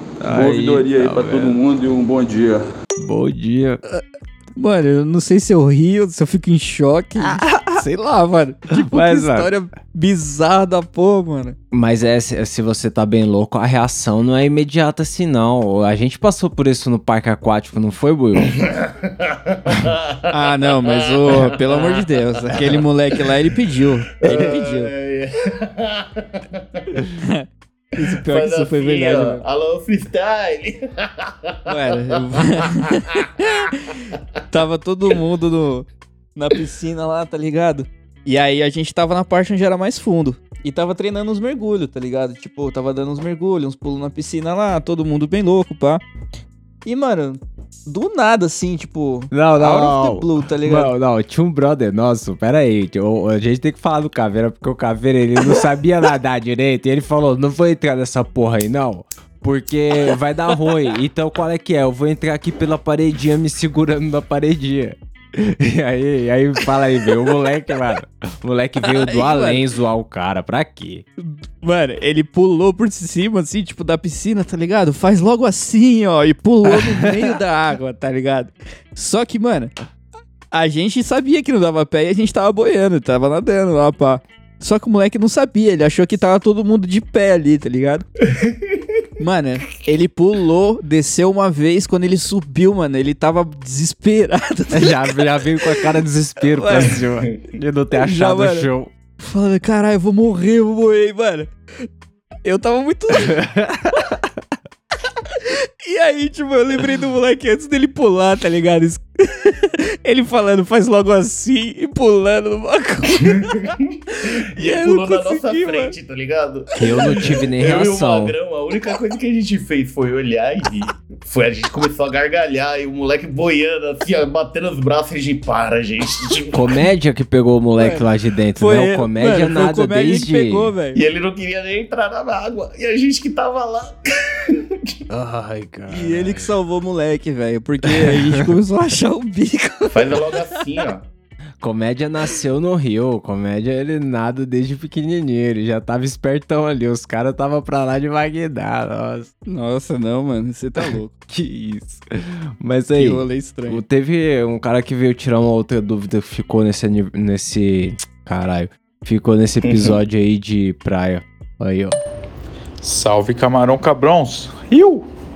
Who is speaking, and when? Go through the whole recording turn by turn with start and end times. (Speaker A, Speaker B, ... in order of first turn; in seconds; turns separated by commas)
Speaker A: 0.2-1.6, Speaker B: 0.3-2.7, Speaker A: 3.0-3.8, Speaker C: 4.6-11.6, Speaker A: 7.3-7.8, Speaker A: 8.7-9.5, Speaker A: 11.7-18.6, Speaker D: 18.6-20.2, Speaker C: 20.3-24.9, Speaker D: 20.8-22.0, Speaker D: 24.2-26.8, Speaker C: 28.0-29.4, Speaker D: 28.3-31.7, Speaker C: 31.7-34.0, Speaker C: 34.5-46.0, Speaker C: 46.9-50.9, Speaker A: 49.3-71.0, Speaker C: 68.8-69.6, Speaker C: 71.2-79.7, Speaker A: 76.8-77.0, Speaker C: 80.5-88.0, Speaker D: 88.3-88.6, Speaker C: 89.2-95.8, Speaker A: 94.7-98.9, Speaker C: 96.5-97.0, Speaker C: 98.0-98.7, Speaker C: 99.2-101.5, Speaker C: 102.5-103.4, Speaker A: 103.3-103.9, Speaker C: 105.5-113.7, Speaker D: 113.4-113.8, Speaker D: 114.6-126.5, Speaker C: 114.6-115.9, Speaker A: 116.8-118.3, Speaker C: 116.9-117.3, Speaker A: 126.5-130.8, Speaker C: 127.8-128.0, Speaker C: 128.6-131.0, Speaker D: 130.9-135.0, Speaker A: 135.1-136.5, Speaker C: 135.9-140.2, Speaker A: 137.9-138.5, Speaker D: 139.9-141.1, Speaker A: 141.6-149.3, Speaker C: 149.5-151.1, Speaker A: 151.3-152.0, Speaker A: 152.6-162.0, Speaker C: 152.9-153.8, Speaker D: 159.6-160.0, Speaker E: 162.8-165.1